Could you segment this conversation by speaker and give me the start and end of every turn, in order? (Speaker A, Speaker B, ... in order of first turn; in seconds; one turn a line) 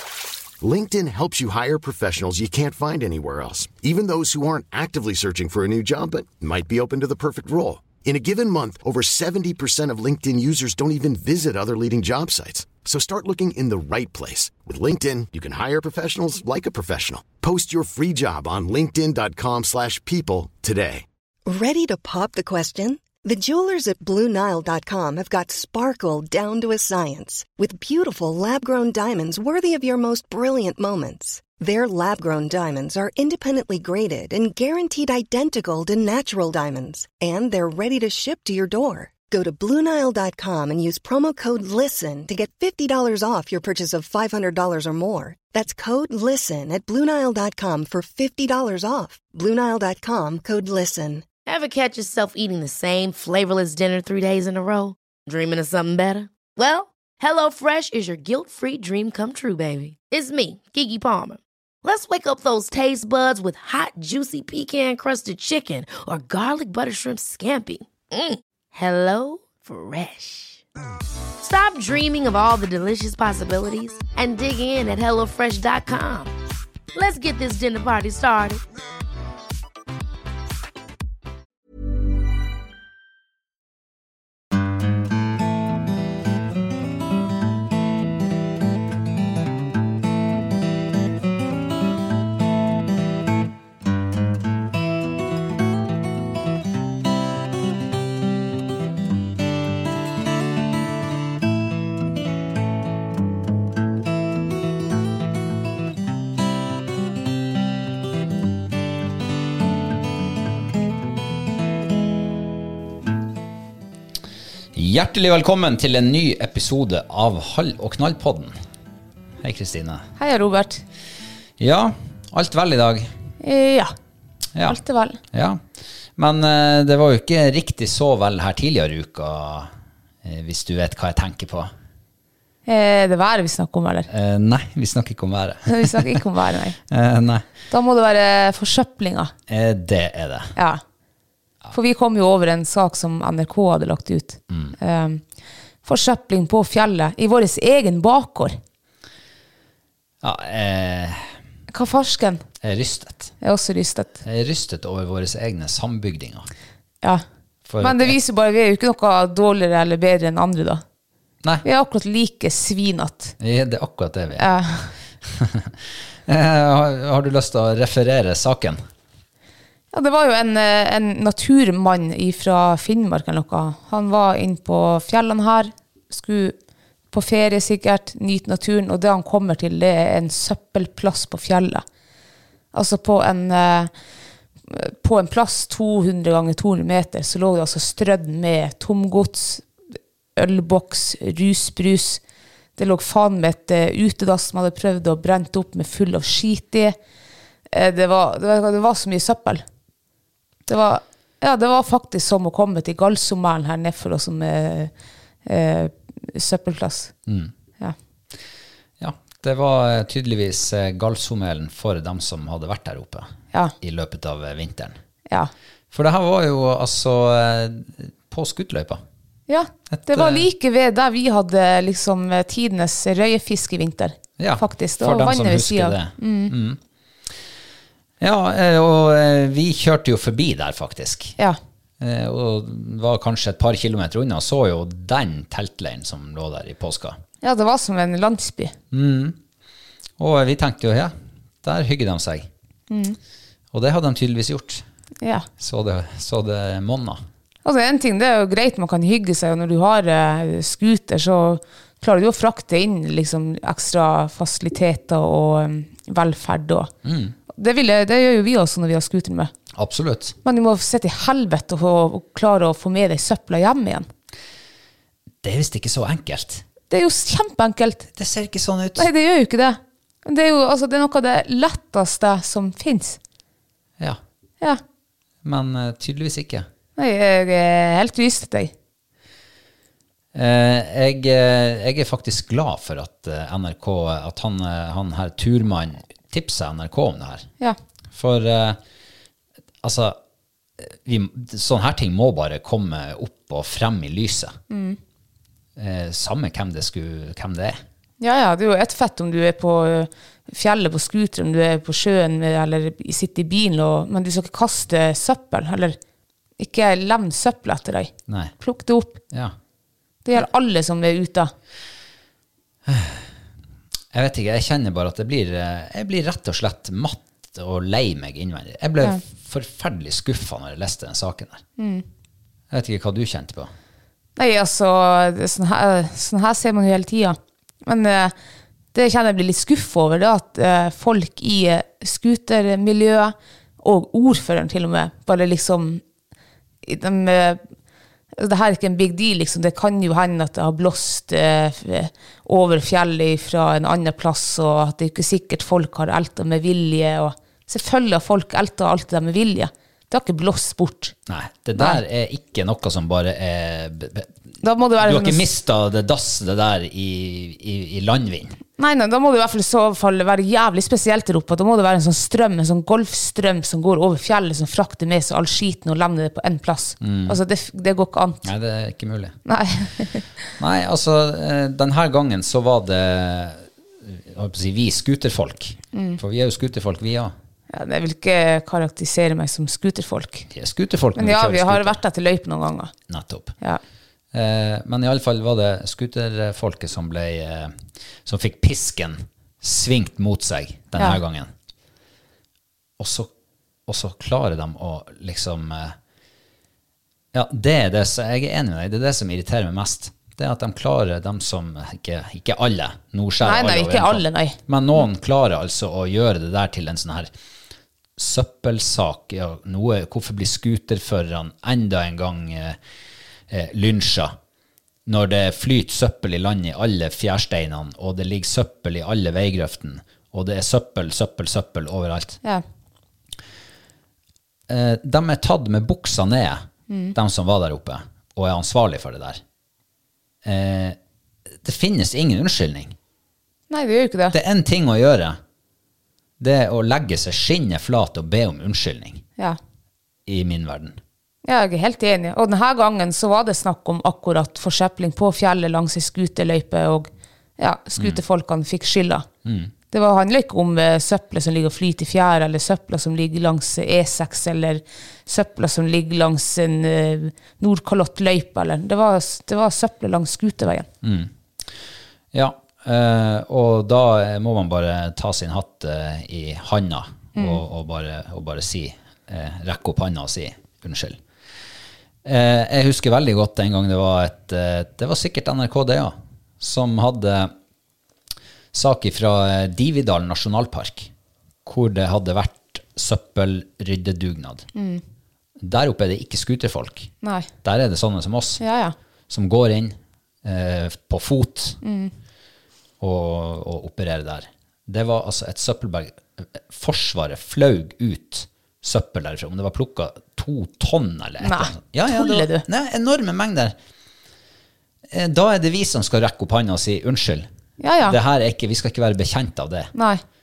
Speaker A: 0.6-21.1
Speaker B: 21.5-51.2
Speaker C: 51.5-70.6
Speaker C: 71.4-76.3
Speaker C: 77.0-78.6
Speaker D: 114.7-118.6
Speaker D: 119.4-120.1
Speaker E: 120.2-120.8
Speaker D: 121.6-123.1
Speaker E: 123.4-123.9
Speaker E: 124.7-125.2
Speaker D: 125.3-125.7
Speaker D: 126.2-129.7
Speaker D: 130.2-131.7
Speaker E: 132.7-134.1
Speaker D: 134.1-136.2
Speaker E: 135.7-136.8
Speaker D: 136.9-137.5
Speaker E: 137.7-139.3
Speaker D: 139.5-140.5
Speaker E: 140.6-140.8
Speaker E: 141.7-145.2
Speaker D: 144.5-144.8
Speaker E: 145.8-148.6
Speaker D: 150.2-151.4
Speaker E: 151.7-152.4
Speaker D: 152.6-153.3
Speaker E: 153.4-154.2
Speaker D: 154.2-156.5
Speaker D: 157.7-158.2
Speaker E: 157.8-160.8
Speaker E: 161.6-163.3
Speaker D: 163.4-164.5
Speaker E: 164.4-164.9
Speaker D: 165.3-165.8
Speaker D: 166.3-168.8
Speaker E: 169.9-176.6
Speaker E: 177.1-181.8
Speaker E: 182.7-183.9
Speaker E: 184.7-189.7
Speaker E: 190.4-192.2
Speaker E: 192.8-196.9
Speaker E: 197.7-199.6
Speaker E: 200.7-204.9
Speaker E: 205.5-207.1
Speaker D: 207.3-207.5
Speaker D: 209.0-215.0
Speaker D: 215.9-219.0
Speaker E: 219.5-226.5
Speaker D: 219.9-220.5
Speaker D: 224.4-226.8
Speaker D: 228.2-231.4
Speaker D: 232.0-237.2
Speaker E: 237.4-238.8
Speaker D: 238.9-239.4
Speaker D: 240.2-242.5
Speaker E: 242.9-243.2
Speaker D: 243.7-244.8
Speaker E: 245.2-245.5
Speaker D: 245.6-247.2
Speaker E: 247.7-256.9
Speaker D: 257.1-257.4
Speaker E: 257.5-259.5
Speaker D: 259.7-260.4
Speaker E: 260.4-264.1
Speaker D: 265.4-266.6
Speaker E: 266.9-268.1
Speaker D: 268.2-269.1
Speaker E: 269.0-273.2
Speaker D: 275.4-276.7
Speaker E: 277.0-278.7
Speaker D: 280.3-287.5
Speaker D: 288.1-288.8
Speaker D: 289.8-290.2
Speaker D: 290.8-294.6
Speaker E: 294.7-295.0
Speaker D: 295.8-297.8
Speaker E: 298.2-306.0
Speaker E: 306.6-309.2
Speaker D: 308.3-308.5
Speaker E: 310.2-311.5
Speaker D: 312.9-313.3
Speaker D: 314.1-321.6
Speaker E: 321.8-322.1
Speaker D: 322.7-323.7
Speaker E: 324.4-328.3
Speaker E: 328.9-336.0
Speaker E: 336.8-337.6
Speaker E: 338.4-351.1
Speaker D: 351.3-354.3
Speaker E: 354.6-355.4
Speaker D: 355.0-358.6
Speaker E: 358.8-368.5
Speaker D: 367.0-367.4
Speaker D: 368.4-369.4
Speaker E: 369.5-370.3
Speaker D: 370.6-377.3
Speaker E: 375.9-376.2
Speaker E: 377.7-380.5
Speaker D: 380.5-382.0
Speaker E: 381.1-382.9
Speaker D: 383.1-383.5
Speaker D: 384.3-391.5
Speaker D: 393.0-393.3
Speaker D: 393.9-396.0
Speaker D: 397.3-407.3
Speaker E: 403.4-404.6
Speaker D: 408.2-412.8
Speaker D: 413.5-414.4
Speaker D: 415.1-422.4
Speaker D: 424.7-429.4
Speaker E: 426.9-427.1
Speaker D: 430.4-431.0
Speaker D: 431.6-433.0
Speaker E: 433.7-434.4
Speaker D: 434.3-435.4
Speaker D: 436.4-439.2
Speaker D: 440.3-441.0
Speaker E: 441.4-449.3
Speaker D: 449.4-449.7
Speaker E: 449.9-460.9
Speaker D: 461.0-461.3
Speaker D: 462.3-471.2
Speaker E: 467.4-467.6
Speaker D: 472.2-477.5
Speaker D: 478.7-481.1
Speaker D: 481.6-484.7
Speaker E: 484.8-485.0
Speaker D: 485.6-487.1
Speaker E: 487.2-487.5
Speaker D: 487.6-488.6
Speaker E: 488.6-488.9
Speaker D: 489.3-491.8
Speaker E: 491.8-492.1
Speaker D: 493.0-503.8
Speaker E: 501.4-502.6
Speaker D: 505.1-507.5
Speaker E: 507.8-508.2
Speaker D: 508.1-509.9
Speaker E: 509.9-510.2